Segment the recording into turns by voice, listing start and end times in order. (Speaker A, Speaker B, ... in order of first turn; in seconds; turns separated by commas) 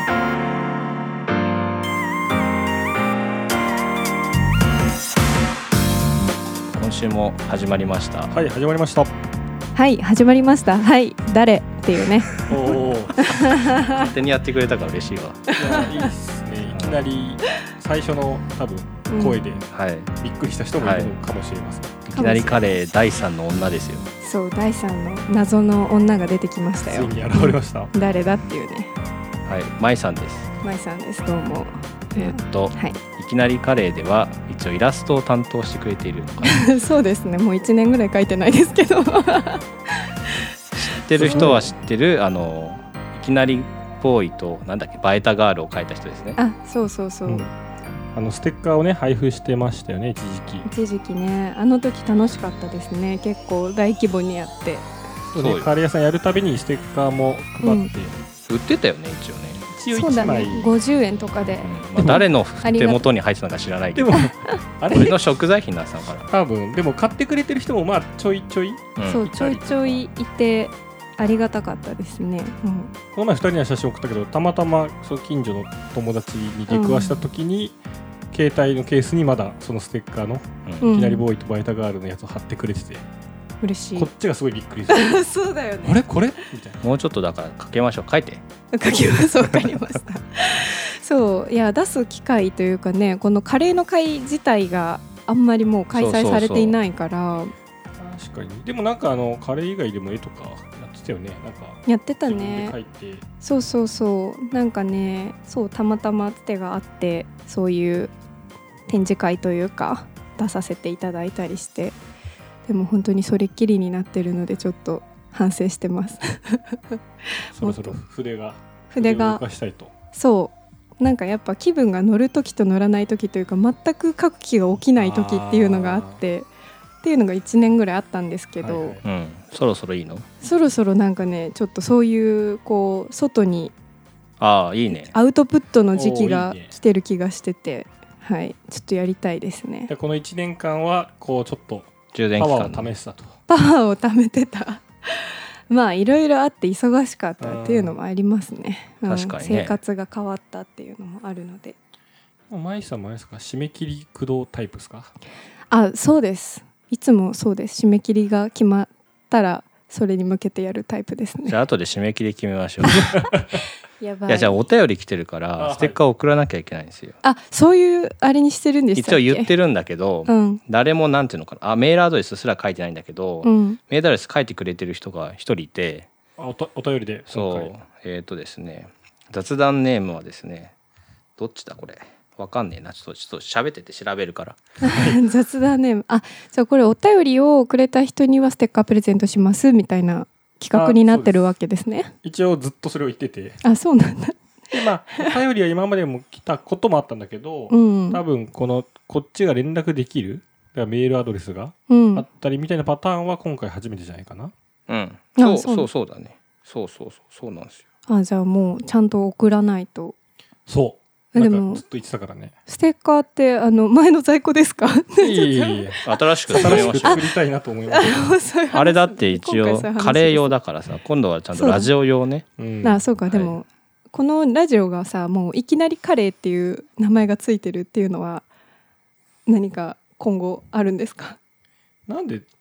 Speaker A: 6.7-8.3, Speaker B: 8.3-9.1, Speaker C: 9.7-12.4, Speaker B: 12.4-13.3, Speaker C: 13.2-14.1, Speaker A: 13.7-15.4, Speaker C: 15.5-16.1, Speaker B: 15.6-19.7, Speaker A: 16.7-17.0, Speaker C: 19.1-19.4, Speaker A: 19.7-20.1, Speaker B: 20.2-22.0, Speaker A: 20.8-21.1, Speaker A: 22.1-24.1, Speaker C: 22.1-22.8, Speaker C: 24.2-28.9, Speaker B: 26.8-27.9, Speaker A: 29.4-30.5, Speaker C: 30.6-33.0, Speaker A: 32.1-36.6, Speaker C: 36.4-40.0, Speaker C: 40.7-41.5, Speaker A: 40.8-46.4, Speaker B: 41.2-41.7, Speaker C: 46.4-47.5, Speaker B: 48.1-50.7, Speaker C: 50.6-54.9, Speaker B: 55.3-58.1, Speaker A: 55.3-55.7, Speaker C: 57.6-57.9, Speaker A: 58.5-59.6, Speaker B: 59.7-60.7, Speaker C: 59.9-61.7, Speaker A: 61.6-64.2, Speaker B: 62.0-62.3, Speaker C: 62.6-63.0, Speaker B: 63.9-65.2, Speaker C: 64.1-64.6, Speaker A: 64.9-66.3, Speaker B: 66.3-70.0, Speaker A: 69.0-69.3, Speaker C: 69.0-72.9, Speaker B: 73.1-77.8, Speaker C: 76.7-77.2, Speaker B: 78.3-83.0, Speaker A: 80.7-80.9, Speaker C: 80.8-81.2, Speaker C: 83.6-84.1, Speaker B: 84.0-85.3, Speaker C: 84.9-86.0, Speaker B: 85.8-86.8, Speaker A: 86.8-88.4, Speaker C: 88.7-97.5, Speaker A: 95.9-96.8, Speaker B: 98.0-103.2, Speaker C: 101.8-102.8, Speaker C: 103.4-108.1, Speaker C: 108.9-112.0, Speaker C: 112.7-118.0, Speaker B: 117.5-119.9, Speaker C: 118.9-119.4, Speaker C: 120.1-126.5, Speaker B: 125.0-126.2, Speaker C: 127.0-129.0, Speaker B: 128.6-129.0, Speaker A: 129.0-130.3, Speaker C: 130.4-133.7, Speaker A: 134.4-135.1, Speaker C: 134.9-139.9, Speaker B: 135.9-136.7, Speaker B: 139.9-143.3, Speaker A: 142.1-142.9, Speaker C: 143.5-151.8, Speaker B: 147.4-147.9, Speaker A: 149.1-149.8, Speaker B: 152.5-155.1, Speaker C: 155.7-161.6, Speaker A: 161.4-163.2, Speaker B: 163.0-163.4, Speaker C: 164.0-164.6, Speaker A: 164.3-167.2, Speaker B: 165.6-166.0, Speaker C: 167.2-169.5, Speaker A: 168.9-176.1, Speaker C: 170.2-170.6, Speaker C: 173.4-173.8, Speaker B: 176.4-177.7, Speaker A: 177.3-180.7, Speaker A: 181.4-184.6, Speaker C: 184.8-192.1, Speaker B: 184.8-185.2, Speaker B: 190.7-191.4, Speaker B: 192.2-193.6, Speaker C: 193.6-195.3, Speaker B: 194.7-204.5, Speaker C: 197.7-198.2, Speaker C: 201.9-202.2, Speaker A: 204.9-207.8, Speaker C: 205.3-205.9, Speaker C: 208.1-210.1, Speaker B: 210.7-212.5, Speaker C: 211.3-211.8, Speaker C: 212.7-217.2, Speaker B: 215.2-218.3, Speaker A: 216.0-217.2, Speaker C: 217.9-220.6, Speaker A: 218.7-222.4, Speaker C: 221.5-221.9, Speaker B: 222.6-223.1, Speaker C: 222.8-228.4, Speaker A: 223.3-223.5, Speaker C: 229.5-231.4, Speaker B: 232.1-232.4